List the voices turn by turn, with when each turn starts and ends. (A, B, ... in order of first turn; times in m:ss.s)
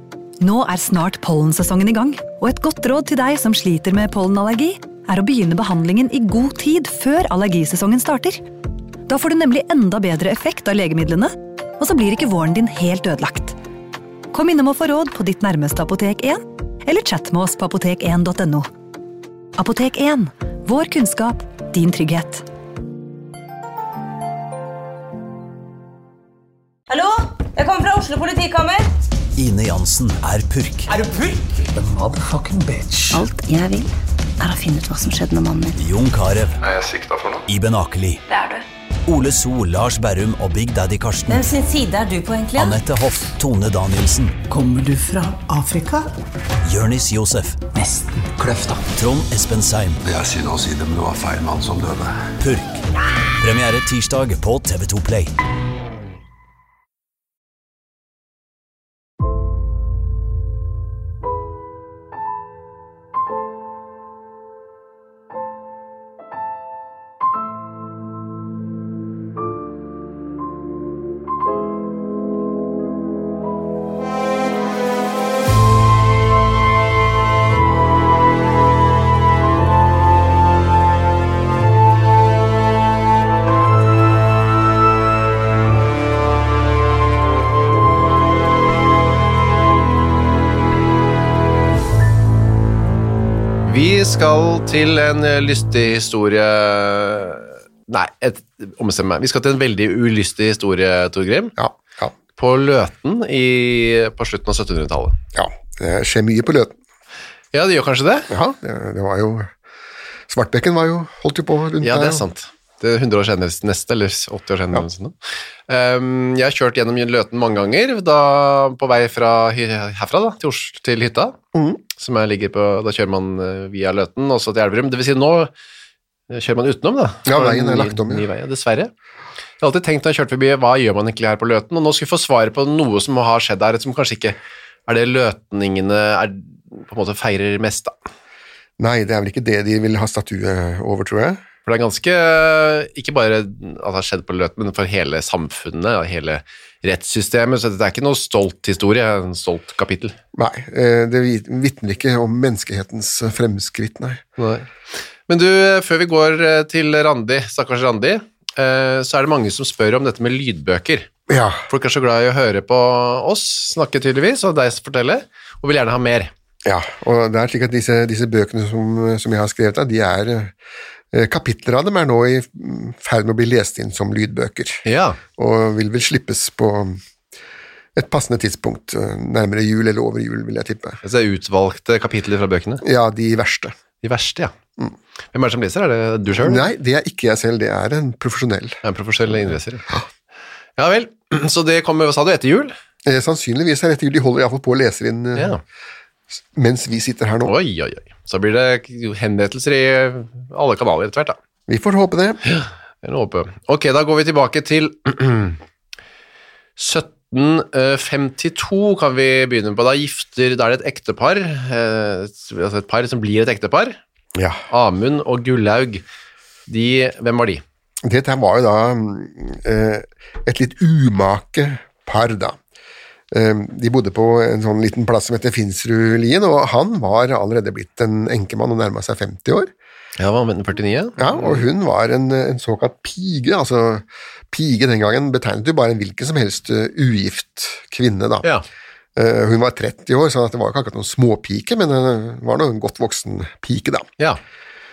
0:00.4-0:08.4 A
0:09.1-0:13.6 A
0:14.3-0:18.7 A
0:19.6-0:22.4 A
0:26.9-0:28.9 B
0:29.4-0:30.9 C
0:31.0-0:33.2 D
0:33.1-0:35.8 E
0:35.7-0:36.6 C
0:36.6-0:37.4 F
0:37.5-0:38.2 C
0:39.0-0:41.5 C
0:41.3-0:42.8 B
0:42.6-0:44.4 C
0:44.5-0:46.1 D
0:46.6-0:47.6 C
0:47.7-0:48.8 D
0:48.9-0:50.0 C
0:50.0-0:52.3 F
0:52.4-0:52.8 C
0:53.4-0:55.3 C
1:33.6-1:41.5 G
1:41.6-1:42.1 H
1:42.4-1:45.2 G
1:45.3-1:46.7 H
1:47.5-1:48.3 G
1:48.3-1:49.5 H
1:50.3-1:52.2 H
1:51.8-1:55.1 G
1:55.7-2:01.4 G
2:01.5-2:01.8 H
2:02.0-2:05.5 G
2:06.3-2:08.9 G
2:07.2-2:08.2 H
2:09.6-2:17.9 G
2:18.8-2:21.4 H
2:21.6-2:30.1 G
2:30.3-2:34.2 H
2:34.4-2:34.7 G
2:35.3-2:41.1 G
2:41.3-2:41.6 H
2:41.7-2:46.3 G
2:46.6-2:50.5 H
2:51.1-2:54.8 H
2:54.8-2:55.2 G
2:55.4-2:57.0 H
2:58.0-3:01.0 H
3:01.0-3:02.8 G
3:02.8-3:03.8 H
3:04.0-3:04.5 G
3:05.3-3:06.7 G
3:06.4-3:08.8 H
3:08.8-3:09.9 G
3:10.8-3:12.7 G
3:13.0-3:15.6 H
3:15.4-3:15.6 G
3:16.5-3:17.6 H
3:17.4-3:21.4 G
3:21.7-3:22.4 H
3:22.4-3:25.6 G
3:26.8-3:34.0 G
3:34.4-3:34.6 H
3:34.7-3:36.0 G
3:36.7-3:37.6 G
3:38.0-3:42.6 H
3:43.3-3:49.7 H
3:50.2-3:51.6 G
3:51.2-3:58.5 H
3:59.2-4:04.1 H